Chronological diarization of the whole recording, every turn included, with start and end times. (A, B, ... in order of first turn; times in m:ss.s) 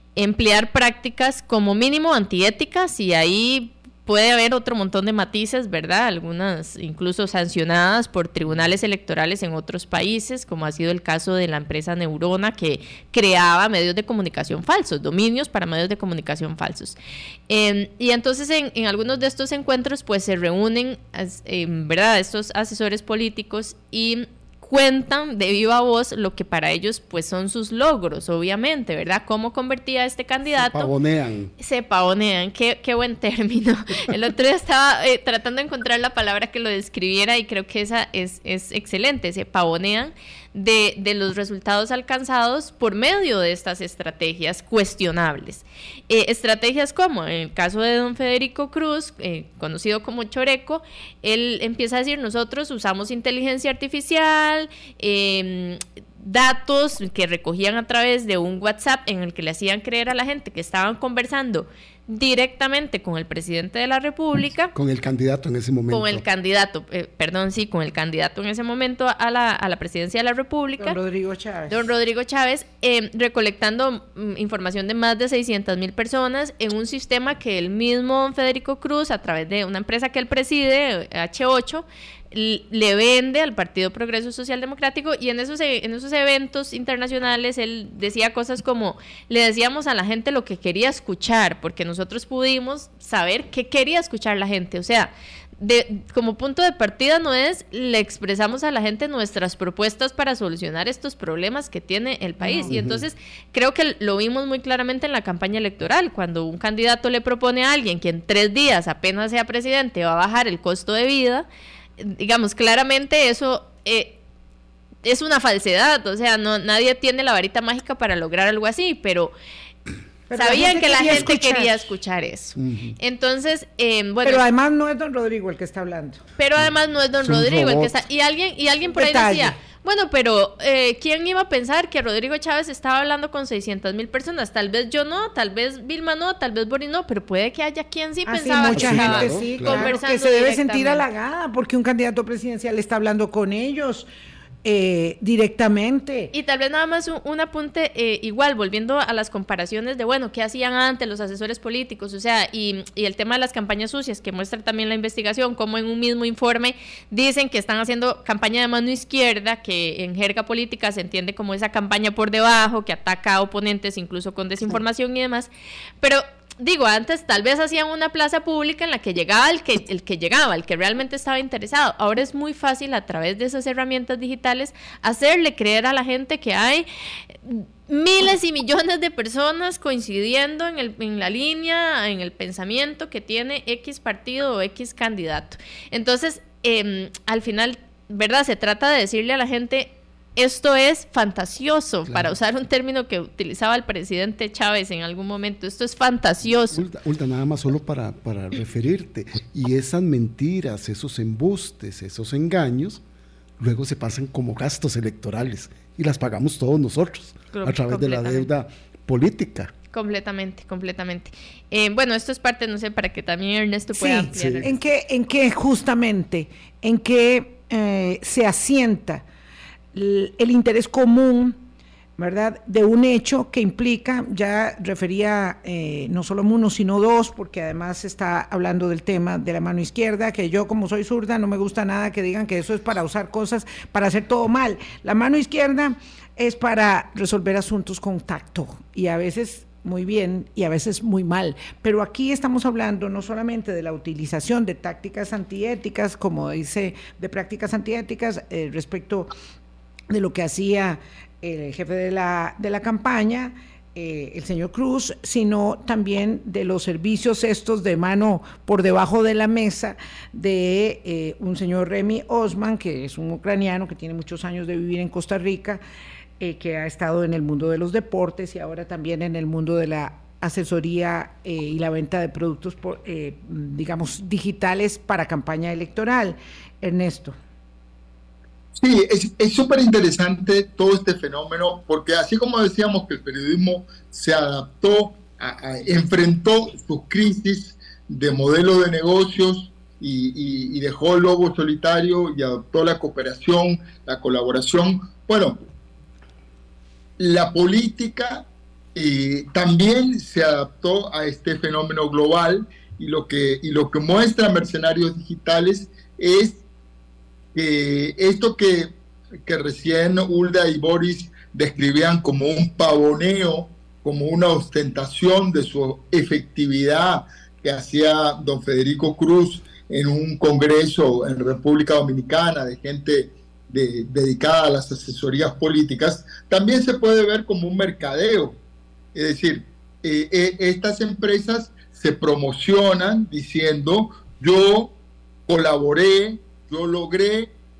0:00.2-0:17.0 A
0:17.5-0:30.9 A
0:30.5-0:31.5 B
0:31.6-1:04.7 A
1:04.7-1:06.2 B
1:05.9-1:11.0 A
1:10.8-1:11.9 C
1:11.7-1:51.5 A
1:42.4-1:42.7 C
1:42.7-1:43.0 B
1:52.0-1:54.2 A
1:55.0-1:59.3 A
2:00.3-2:01.9 C
2:00.3-2:04.4 A
2:02.6-2:03.0 B
2:04.2-2:06.2 C
2:06.4-2:21.0 A
2:07.2-2:07.9 B
2:08.9-2:09.6 C
2:18.2-2:24.1 C
2:18.7-2:19.9 B
2:24.6-2:26.3 C
2:26.3-2:45.5 A
2:46.0-2:56.8 A
2:57.4-3:16.8 A
3:12.1-3:12.3 B
3:16.7-3:23.0 B
3:23.6-3:29.7 B
3:27.5-3:28.5 A
3:29.9-3:34.8 A
3:33.9-3:39.2 C
3:34.3-3:34.7 B
3:39.9-3:41.6 C
3:42.2-4:09.3 C
4:10.1-4:25.8 C
4:26.4-4:37.4 C
4:38.8-4:55.6 D
4:57.2-5:06.6 D
5:07.5-5:08.9 D
5:09.4-5:28.6 D
5:29.1-5:34.9 D
5:35.5-5:37.5 D